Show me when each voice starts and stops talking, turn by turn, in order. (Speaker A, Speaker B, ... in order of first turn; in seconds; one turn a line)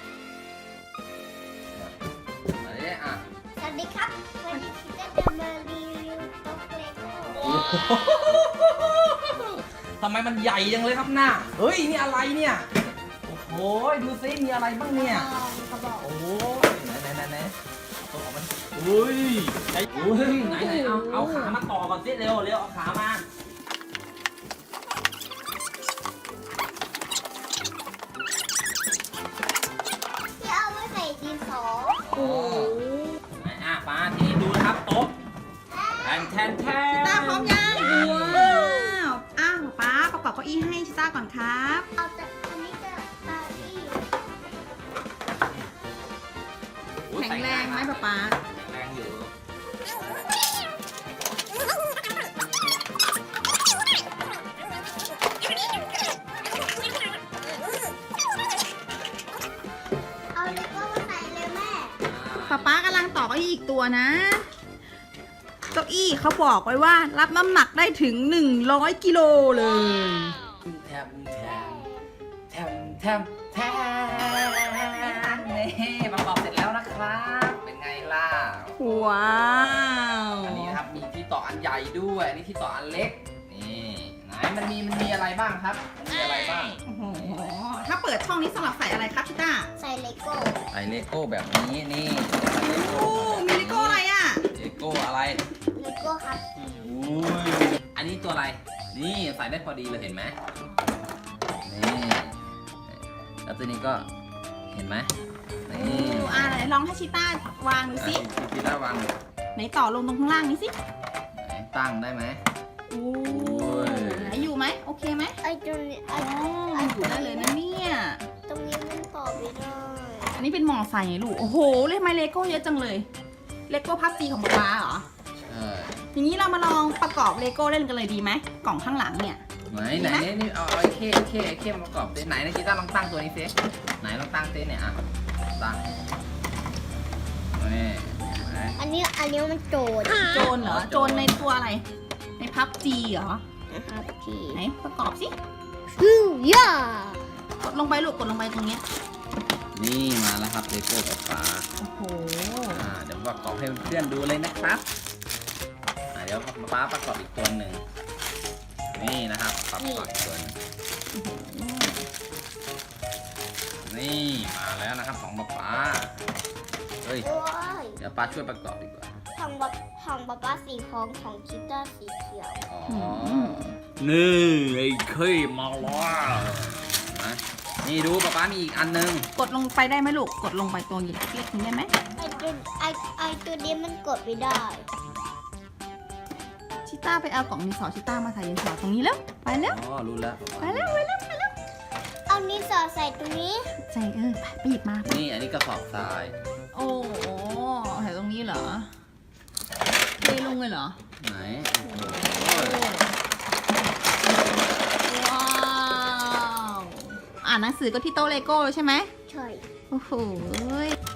Speaker A: 2.5-3.2
Speaker B: 3.5-7.7
Speaker A: 7.4-12.7
Speaker A: 13.2-15.3
Speaker B: 14.9-16.1
Speaker A: 16.0-17.5
Speaker A: 18.1-23.2
Speaker B: 19.8-20.9
Speaker C: 20.5-21.6
Speaker B: 30.4-32.1
Speaker A: 32.0-32.8
Speaker C: 32.1-33.2
Speaker A: 33.4-35.1
Speaker B: 35.7-36.4
Speaker A: 36.0-38.8
Speaker C: 36.9-41.9
Speaker B: 38.4-38.7
Speaker B: 42.0-44.2
Speaker A: 47.0-49.3
Speaker C: 47.1-48.4
Speaker B: 60.3-62.0
Speaker A: 62.0-62.7
Speaker C: 62.5-64.5
Speaker C: 65.7-70.3
Speaker A: 70.6-71.8
Speaker B: 71.4-72.0
Speaker A: 72.5-78.9
Speaker C: 78.8-80.8
Speaker A: 80.4-87.3
Speaker C: 86.8-89.7
Speaker B: 89.8-90.6
Speaker A: 90.7-95.4
Speaker C: 92.6-94.4
Speaker B: 95.8-96.9
Speaker A: 96.8-100.3
Speaker A: 101.6-102.4
Speaker A: 102.9-104.1
Speaker A: 104.7-105.1
Speaker A: 105.7-106.5
Speaker C: 105.7-108.2
Speaker A: 108.0-109.1
Speaker C: 109.5-110.7
Speaker A: 111.3-112.4
Speaker C: 112.9-115.3
Speaker A: 113.2-114.5
Speaker B: 115.4-117.5
Speaker C: 116.2-118.2
Speaker B: 118.5-120.4
Speaker C: 120.4-123.0
Speaker C: 123.7-125.0
Speaker A: 125.4-126.0
Speaker C: 126.1-129.4
Speaker A: 129.7-134.9
Speaker C: 129.9-130.3
Speaker A: 135.6-135.8
Speaker A: 137.5-138.8
Speaker B: 138.8-140.5
Speaker C: 140.1-141.8
Speaker A: 140.5-141.4
Speaker C: 142.4-143.4
Speaker B: 143.7-144.6
Speaker C: 144.5-145.3
Speaker B: 145.9-147.2
Speaker C: 147.6-148.8
Speaker A: 149.7-151.7
Speaker C: 151.8-152.8
Speaker A: 152.7-154.8
Speaker A: 156.1-157.8
Speaker A: 158.9-160.5
Speaker B: 159.8-160.1
Speaker C: 161.1-162.1
Speaker A: 163.8-166.1
Speaker A: 167.0-167.3
Speaker B: 167.2-168.0
Speaker A: 168.0-169.1
Speaker B: 169.3-172.6
Speaker A: 172.7-179.3
Speaker C: 172.9-173.7
Speaker C: 179.3-181.9
Speaker B: 182.2-184.9
Speaker C: 186.8-189.8
Speaker A: 189.6-191.1
Speaker C: 190.6-191.5
Speaker B: 192.3-193.7
Speaker C: 193.8-195.1
Speaker A: 195.0-196.3
Speaker C: 196.7-198.9
Speaker C: 200.2-201.0
Speaker A: 201.2-202.9
Speaker C: 201.9-203.1
Speaker C: 204.2-209.1
Speaker B: 209.3-209.7
Speaker C: 209.9-210.9